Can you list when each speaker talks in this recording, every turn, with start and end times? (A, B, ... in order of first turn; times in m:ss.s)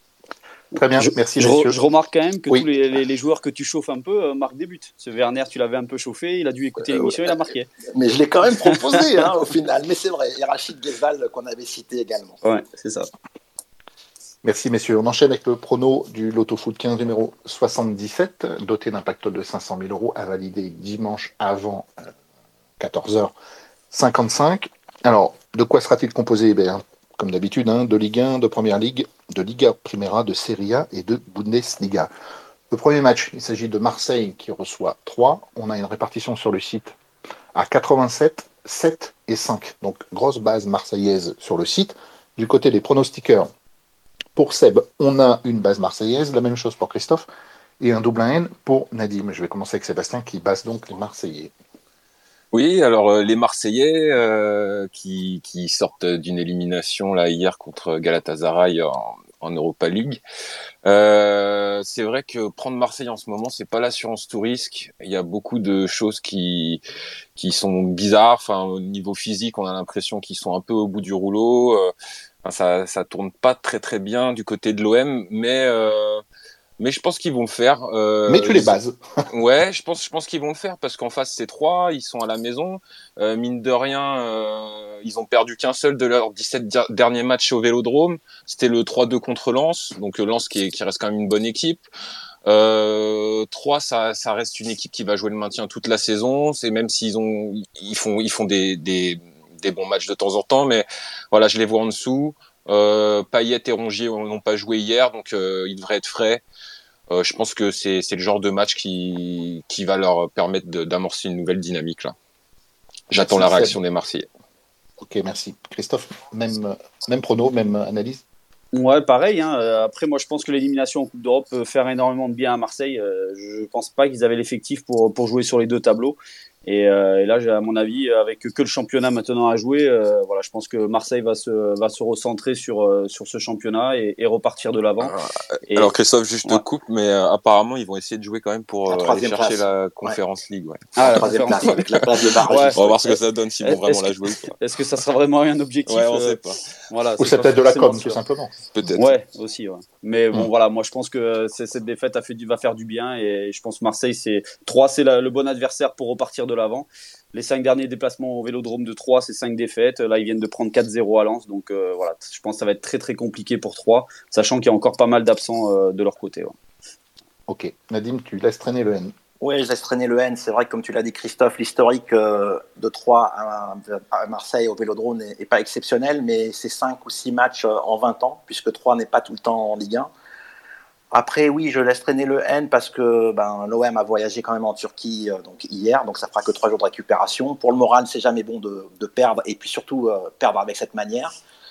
0:00.7-0:01.8 A
0:01.0-0:07.7 B
0:06.9-0:07.3 C
0:07.9-0:12.4 C
0:12.4-0:13.1 B
0:14.4-0:22.1 A
0:22.8-0:23.3 A
0:23.9-0:32.1 A
0:32.7-0:36.9 A
0:37.5-0:43.5 A
0:44.3-0:47.2 A
0:47.8-0:51.5 A
0:52.5-1:00.2 D
1:00.8-1:06.8 D
1:07.4-1:11.9 D
1:12.4-1:16.2 D
1:16.8-1:18.7 D
1:18.3-1:19.2 A
1:19.3-1:31.8 D
1:32.4-1:46.4 D
1:47.1-1:52.1 D
1:53.1-1:54.3 D
1:53.1-1:53.8 A
1:55.0-1:58.2 A
1:58.7-2:15.1 B
2:15.0-2:24.5 D
2:18.9-2:20.2 C
2:21.0-2:21.8 B
2:21.0-2:22.9 C
2:22.4-2:26.4 B
2:25.9-2:26.7 D
2:26.9-2:28.1 B
2:27.2-2:28.6 A
2:28.7-2:29.2 D
2:28.9-2:46.5 B
2:47.5-2:49.1 A
2:49.4-3:00.1 C
3:01.1-3:11.4 C